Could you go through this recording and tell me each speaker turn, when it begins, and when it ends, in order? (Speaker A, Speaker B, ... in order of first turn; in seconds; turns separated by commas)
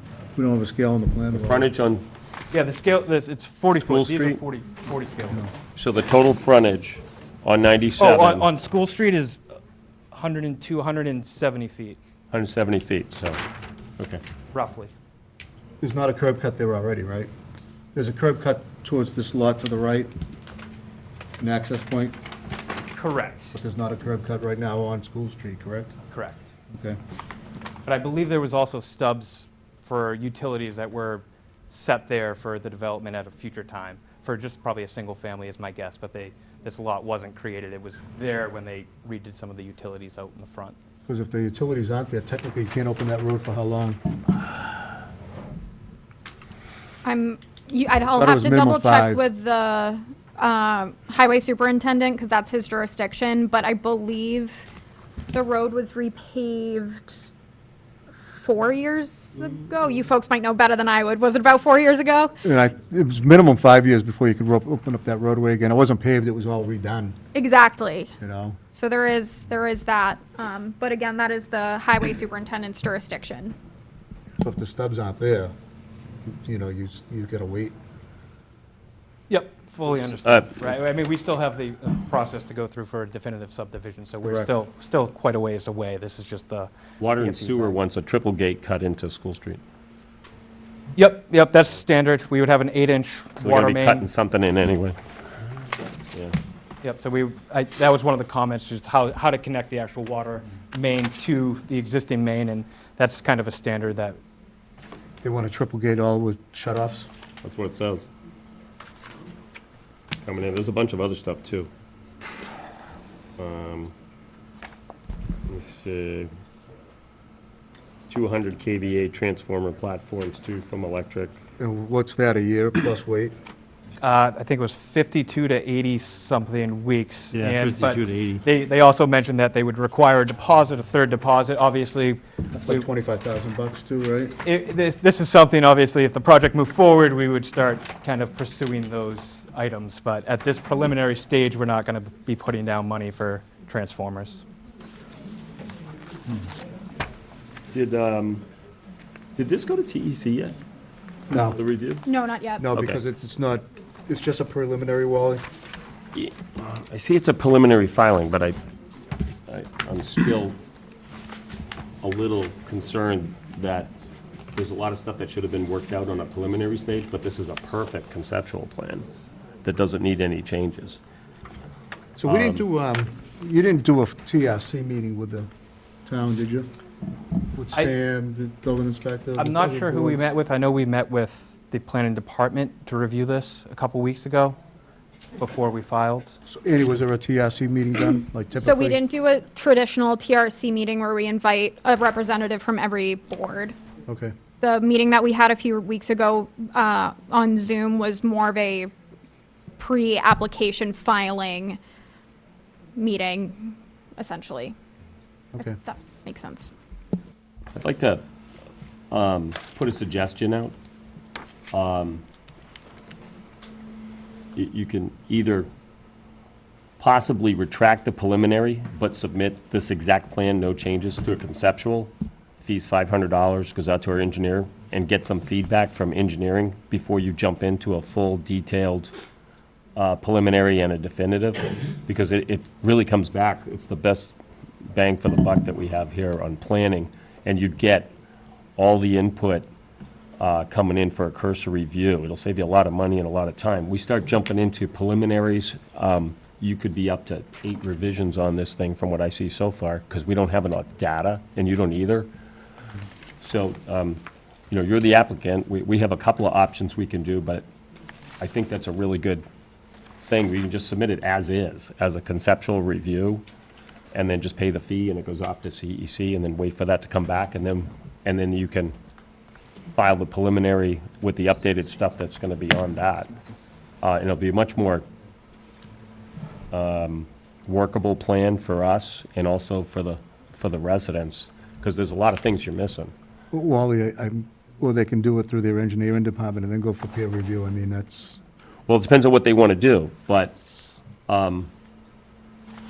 Speaker A: 0.3-1.7, Speaker B: 1.3-2.0, Speaker C: 2.5-5.5, Speaker B: 3.8-4.4, Speaker B: 5.8-8.5, Speaker C: 8.0-9.4, Speaker C: 10.1-12.0, Speaker B: 12.3-13.4, Speaker C: 14.5-14.9, Speaker A: 15.8-17.3, Speaker A: 17.9-20.1, Speaker A: 21.4-22.1, Speaker C: 22.9-23.6, Speaker A: 23.5-25.9, Speaker C: 26.1-26.5, Speaker A: 26.7-27.0, Speaker C: 27.9-40.8, Speaker A: 41.1-44.0, Speaker D: 47.0-54.6, Speaker A: 48.1-49.2, Speaker D: 55.3-57.3, Speaker D: 58.4-62.3, Speaker A: 62.4-67.2, Speaker D: 67.3-68.1, Speaker A: 68.2-68.6, Speaker D: 68.7-73.5, Speaker A: 74.4-75.5, Speaker A: 76.2-77.8, Speaker C: 79.3-87.8, Speaker B: 79.9-80.5, Speaker A: 84.2-84.5, Speaker B: 87.0-89.6, Speaker C: 90.9-94.1, Speaker B: 93.4-95.0, Speaker C: 96.8-104.2, Speaker A: 105.2-107.1, Speaker B: 107.4-108.1, Speaker B: 110.2-111.7, Speaker B: 113.4-113.9, Speaker B: 115.5-116.3, Speaker B: 118.1-121.3, Speaker A: 121.6-123.3, Speaker C: 124.0-132.8, Speaker A: 132.6-134.3, Speaker C: 134.4-144.5, Speaker B: 147.7-148.4, Speaker B: 149.4-150.6, Speaker A: 151.3-151.6, Speaker B: 151.5-152.0, Speaker D: 152.1-152.7, Speaker A: 152.6-155.4, Speaker B: 152.7-153.0, Speaker B: 156.1-158.6, Speaker B: 159.5-160.6, Speaker B: 162.0-163.9, Speaker B: 164.5-169.1, Speaker B: 169.6-171.0, Speaker A: 172.2-175.5, Speaker B: 172.2-172.7, Speaker A: 176.0-176.7, Speaker A: 177.5-180.2, Speaker C: 179.4-184.6, Speaker C: 185.4-186.3, Speaker A: 186.5-189.0, Speaker D: 188.6-193.8, Speaker A: 194.1-194.3, Speaker D: 194.6-198.9, Speaker D: 199.8-201.8, Speaker D: 203.0-204.8, Speaker D: 205.6-206.7, Speaker B: 207.7-208.2, Speaker B: 209.1-210.8, Speaker B: 211.7-212.2, Speaker B: 214.5-215.7, Speaker B: 217.0-229.1, Speaker B: 230.0-234.3, Speaker B: 234.9-238.1, Speaker B: 238.8-239.7, Speaker B: 240.4-252.3, Speaker B: 253.4-257.7, Speaker B: 258.4-259.4, Speaker B: 260.3-263.4, Speaker B: 264.1-269.0, Speaker B: 270.0-273.3, Speaker B: 274.0-275.1, Speaker B: 276.7-283.1, Speaker A: 283.5-288.4, Speaker B: 288.9-290.6, Speaker B: 291.3-291.7